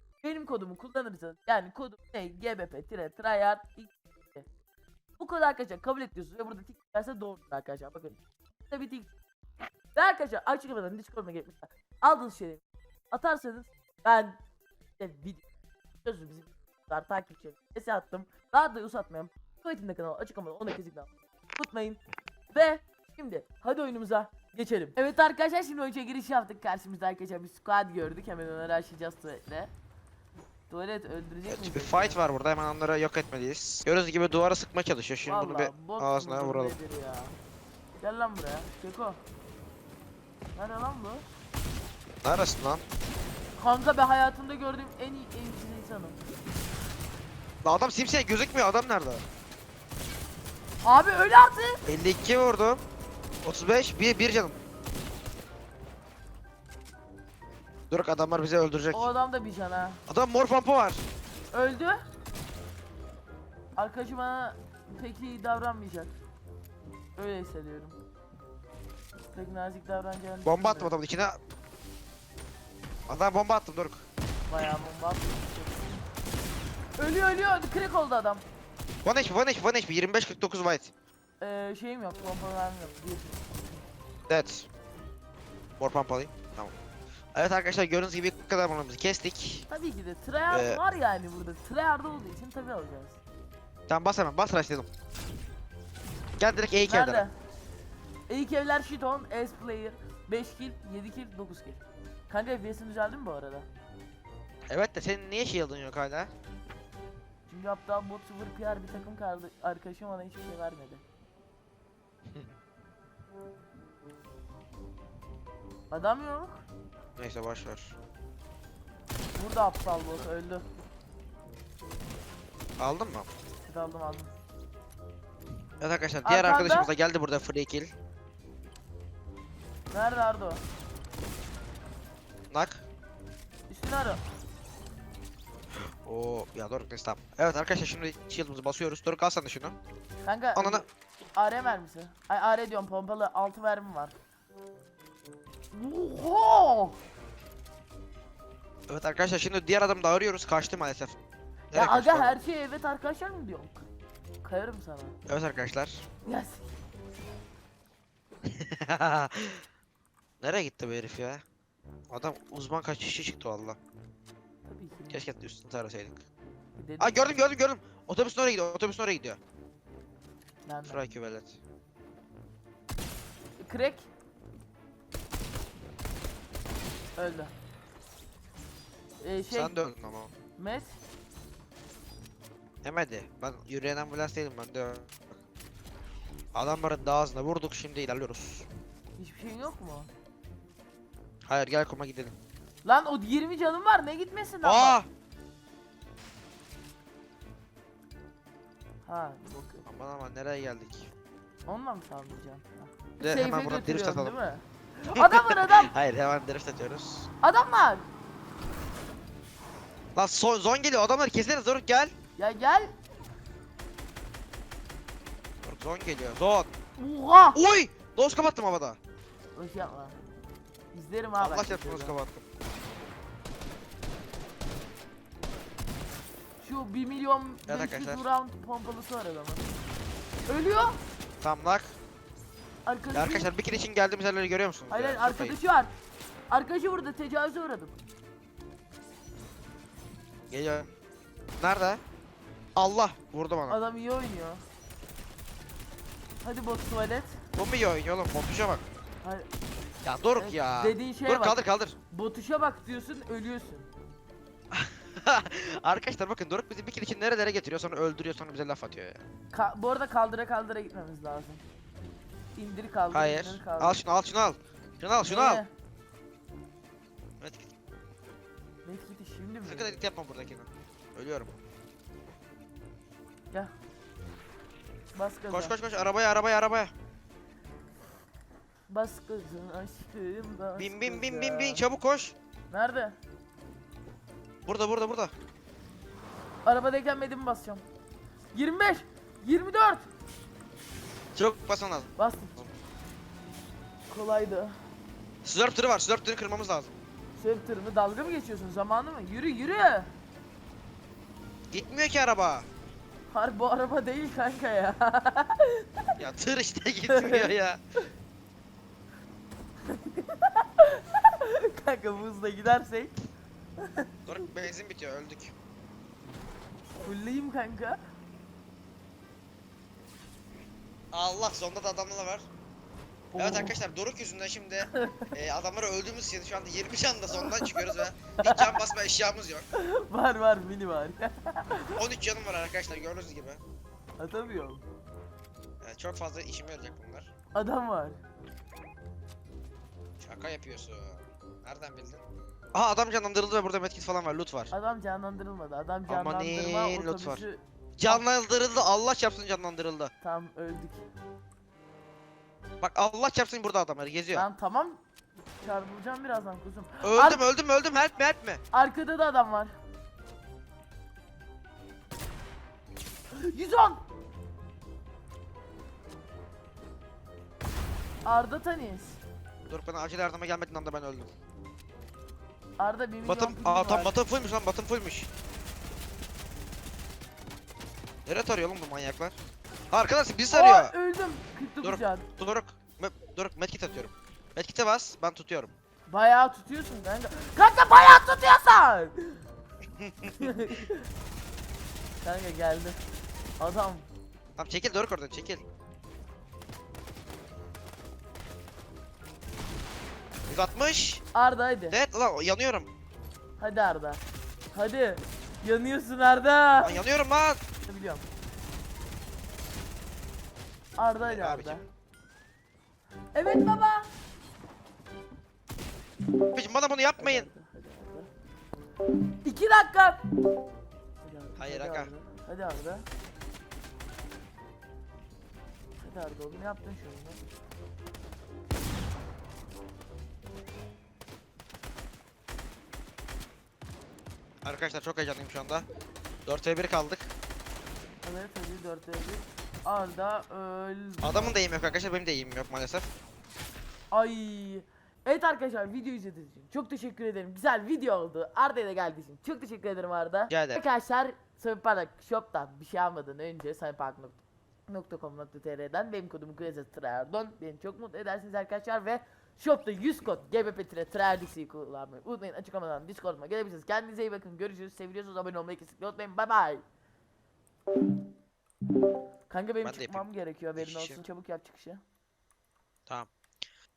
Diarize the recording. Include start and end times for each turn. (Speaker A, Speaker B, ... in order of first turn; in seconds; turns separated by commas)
Speaker A: 0.2-4.5, Speaker A: 5.2-9.1, Speaker A: 9.9-14.4, Speaker A: 15.0-15.4, Speaker A: 16.0-22.0, Speaker A: 22.5-29.7, Speaker A: 30.7-32.2, Speaker B: 31.5-36.8, Speaker A: 35.2-37.3, Speaker A: 38.0-39.2, Speaker A: 40.5-41.2, Speaker B: 42.2-42.8, Speaker A: 43.6-46.2, Speaker B: 47.6-49.2, Speaker A: 50.8-51.8, Speaker B: 51.9-52.8, Speaker B: 53.4-54.6, Speaker B: 57.9-59.1, Speaker A: 58.9-60.0, Speaker B: 60.1-61.0, Speaker A: 61.5-62.0, Speaker A: 63.8-66.1, Speaker A: 67.2-68.0, Speaker A: 69.3-70.9, Speaker B: 70.4-71.4, Speaker B: 73.1-74.0, Speaker A: 74.5-76.0, Speaker A: 77.0-78.4, Speaker B: 79.0-80.9, Speaker A: 81.4-83.8, Speaker B: 84.3-84.7, Speaker B: 85.8-86.7, Speaker B: 87.3-89.7, Speaker A: 89.7-93.2, Speaker B: 90.5-90.8, Speaker B: 93.9-94.9, Speaker B: 96.4-97.2, Speaker A: 96.8-97.3, Speaker A: 98.3-103.7, Speaker B: 104.7-106.3, Speaker A: 107.5-111.0, Speaker A: 115.9-116.6, Speaker B: 117.2-117.9, Speaker A: 119.3-120.7, Speaker B: 122.8-123.3, Speaker A: 123.7-124.3, Speaker B: 125.8-127.9, Speaker A: 126.2-126.9, Speaker A: 129.9-130.6, Speaker B: 132.5-132.8, Speaker A: 133.7-134.2, Speaker B: 135.7-139.8, Speaker A: 140.2-144.2, Speaker B: 140.6-140.8, Speaker A: 145.7-147.0, Speaker B: 148.9-151.2, Speaker B: 151.7-152.4, Speaker A: 151.7-153.9, Speaker A: 154.4-155.2, Speaker B: 155.2-156.0, Speaker A: 156.2-156.7, Speaker B: 158.4-159.6, Speaker B: 160.4-161.4, Speaker B: 162.1-163.8, Speaker A: 164.7-165.2, Speaker B: 165.1-166.2, Speaker A: 166.8-167.3, Speaker B: 167.0-169.4, Speaker A: 170.6-171.0, Speaker B: 170.9-171.6, Speaker A: 173.6-174.1, Speaker A: 177.2-177.5, Speaker A: 179.2-179.7, Speaker B: 179.5-180.3, Speaker A: 180.6-181.0, Speaker B: 182.8-185.1, Speaker B: 186.5-188.7, Speaker A: 189.2-190.1, Speaker B: 191.4-192.3, Speaker A: 192.8-195.0, Speaker B: 194.6-195.1, Speaker A: 199.1-199.8, Speaker B: 199.8-201.1, Speaker A: 201.7-205.9, Speaker B: 203.2-204.4, Speaker B: 205.1-207.3, Speaker A: 207.4-208.1, Speaker B: 210.1-212.1, Speaker A: 212.4-212.9, Speaker B: 215.6-216.7, Speaker A: 217.0-217.6, Speaker B: 217.5-219.0, Speaker A: 219.5-220.2, Speaker A: 220.9-222.2, Speaker B: 221.4-222.4, Speaker A: 226.6-229.6, Speaker B: 227.7-228.2, Speaker A: 230.5-231.0, Speaker B: 231.4-231.9, Speaker A: 232.8-233.5, Speaker B: 233.1-235.6, Speaker A: 234.9-235.9, Speaker A: 236.5-238.0, Speaker B: 240.5-240.9, Speaker B: 241.6-242.0, Speaker B: 242.8-243.8, Speaker A: 243.7-244.6, Speaker A: 246.4-247.4, Speaker B: 247.6-248.8, Speaker A: 249.2-249.5, Speaker B: 250.0-252.0, Speaker A: 250.4-251.6, Speaker A: 252.1-253.9, Speaker B: 254.7-259.2, Speaker A: 259.5-261.6, Speaker A: 262.6-264.0, Speaker B: 263.1-265.6, Speaker A: 265.2-265.7, Speaker B: 267.4-267.7, Speaker A: 268.8-270.0, Speaker B: 269.6-271.5, Speaker A: 275.1-275.7, Speaker B: 275.5-276.9, Speaker A: 278.9-281.8, Speaker B: 280.8-282.3, Speaker A: 282.7-283.1, Speaker B: 284.6-285.3, Speaker A: 286.6-287.8, Speaker A: 288.5-290.1, Speaker B: 291.3-292.7, Speaker A: 292.2-292.6, Speaker A: 294.1-294.7, Speaker B: 295.4-296.9, Speaker A: 297.4-300.1, Speaker B: 301.7-302.6, Speaker A: 303.3-306.1, Speaker B: 306.2-307.8, Speaker A: 307.1-307.5, Speaker A: 309.9-313.2, Speaker A: 313.8-314.1, Speaker B: 314.2-315.5, Speaker A: 317.0-318.0, Speaker B: 321.1-322.5, Speaker A: 323.3-323.8, Speaker B: 323.4-329.6, Speaker A: 324.9-325.3, Speaker A: 327.4-328.8, Speaker A: 329.7-332.0, Speaker B: 331.9-333.6, Speaker A: 334.2-334.8, Speaker B: 335.8-337.3, Speaker A: 337.5-338.2, Speaker B: 340.2-342.2, Speaker B: 342.7-344.7, Speaker A: 344.7-348.2, Speaker B: 346.1-347.4, Speaker B: 348.0-350.1, Speaker A: 350.2-351.1, Speaker B: 352.8-354.4, Speaker A: 354.3-355.0, Speaker A: 355.6-357.4, Speaker B: 357.0-358.6, Speaker A: 358.7-359.7, Speaker A: 363.3-364.0, Speaker A: 368.2-369.2, Speaker B: 369.7-371.3, Speaker A: 372.8-374.2, Speaker B: 373.2-375.3, Speaker B: 378.2-379.4, Speaker B: 379.9-380.9, Speaker A: 380.5-382.3, Speaker B: 381.8-385.7, Speaker A: 386.1-389.4, Speaker B: 390.0-390.5, Speaker A: 390.2-391.1, Speaker A: 392.2-393.0, Speaker A: 393.6-394.1, Speaker B: 394.6-395.6, Speaker B: 400.5-401.2, Speaker A: 401.3-402.0, Speaker B: 401.9-402.9, Speaker A: 403.6-404.2, Speaker A: 404.7-407.0, Speaker B: 406.8-407.6, Speaker A: 407.9-408.2, Speaker A: 411.0-411.8, Speaker B: 411.2-411.8, Speaker A: 413.3-414.1, Speaker B: 416.5-417.5, Speaker A: 417.2-418.3, Speaker A: 419.4-420.2, Speaker A: 421.2-423.1, Speaker B: 421.6-422.1, Speaker A: 426.0-427.4, Speaker B: 434.6-435.9, Speaker B: 436.4-437.3, Speaker A: 438.2-441.6, Speaker B: 441.2-443.1, Speaker A: 444.1-466.8, Speaker B: 450.5-450.8, Speaker A: 469.5-472.0, Speaker B: 469.8-471.2